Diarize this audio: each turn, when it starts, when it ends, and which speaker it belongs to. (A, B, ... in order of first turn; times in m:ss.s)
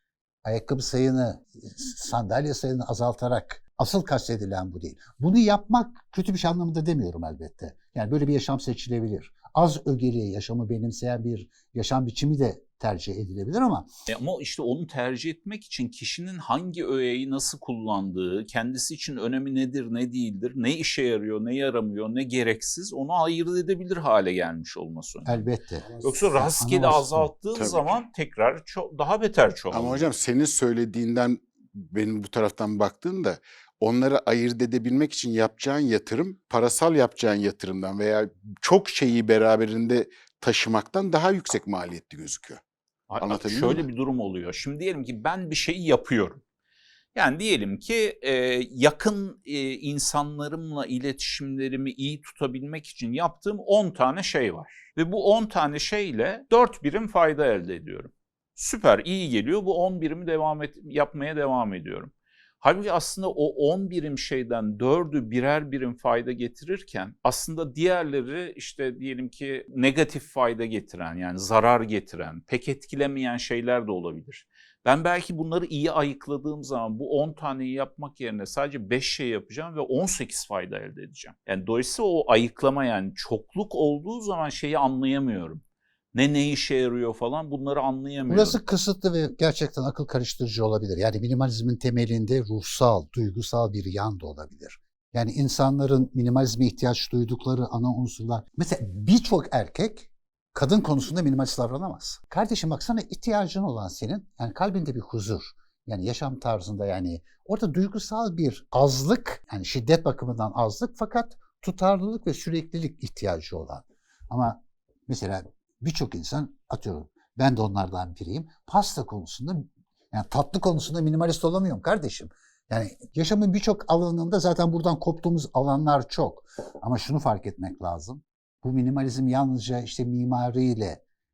0:00.4-0:13.9 A
0:14.1-0:25.5 B
0:25.2-0:27.3 A
0:26.0-0:30.0 B
0:27.5-0:28.0 C
0:29.7-0:42.6 C
0:43.1-0:46.4 B
0:43.2-0:43.9 C
0:47.1-1:25.6 B
1:26.1-1:28.6 B
1:28.3-2:11.0 A